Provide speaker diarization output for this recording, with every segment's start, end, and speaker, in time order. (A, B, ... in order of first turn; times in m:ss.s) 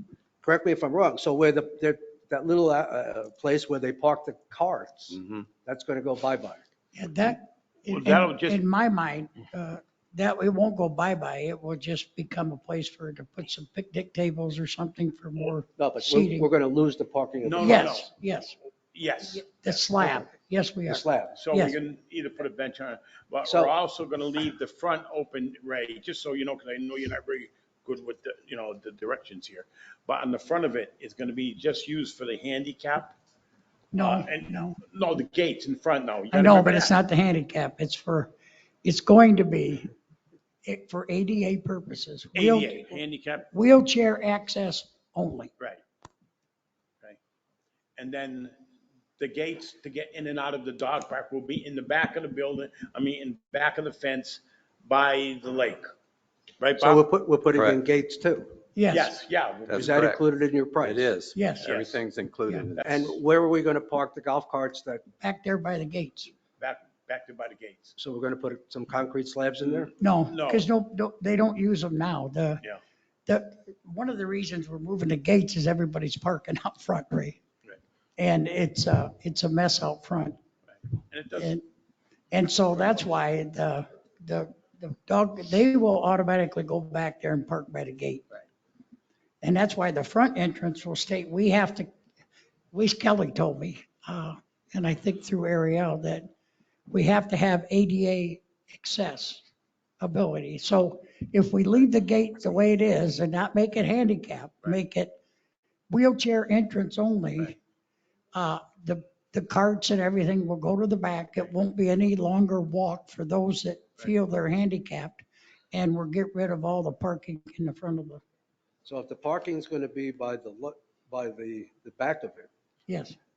0:00.4-0:06.6 A
0:05.1-0:05.5 B
0:07.0-0:16.5 C
0:07.9-0:08.6 D
0:15.8-0:18.0 A
0:17.4-0:18.1 D
0:17.6-0:18.6 C
0:18.9-0:19.4 D
0:19.3-0:21.8 C
0:20.0-0:20.3 A
0:20.9-0:21.4 A
0:21.4-0:33.2 D
0:23.4-0:23.7 A
0:33.9-0:34.8 C
0:34.0-0:36.9 D
0:36.3-0:38.3 C
0:38.8-0:39.9 C
0:40.6-0:43.0 C
0:42.4-0:43.5 D
0:43.5-0:45.5 C
0:48.0-0:48.6 D
0:49.2-0:55.8 D
0:56.6-0:57.0 D
0:56.8-0:58.6 A
0:57.5-0:57.8 B
0:58.8-0:59.1 C
0:58.9-0:59.9 D
0:59.7-1:00.2 B
0:59.7-1:01.1 A
1:00.8-1:03.2 B
1:01.4-1:01.7 C
1:01.6-1:02.0 D
1:02.8-1:05.0 A
1:05.2-1:06.3 C
1:06.6-1:08.0 D
1:08.0-1:09.9 A
1:09.7-1:10.7 D
1:10.0-1:12.6 C
1:13.3-1:17.4 C
1:18.2-1:20.4 C
1:20.8-1:21.6 D
1:21.4-1:21.6 C
1:22.3-1:28.2 C
1:29.4-1:31.9 C
1:32.7-1:36.3 C
1:36.9-1:39.4 C
1:40.0-1:45.1 C
1:45.9-1:47.6 C
1:48.3-1:58.2 C
1:58.8-2:02.5 A
2:02.9-2:03.2 C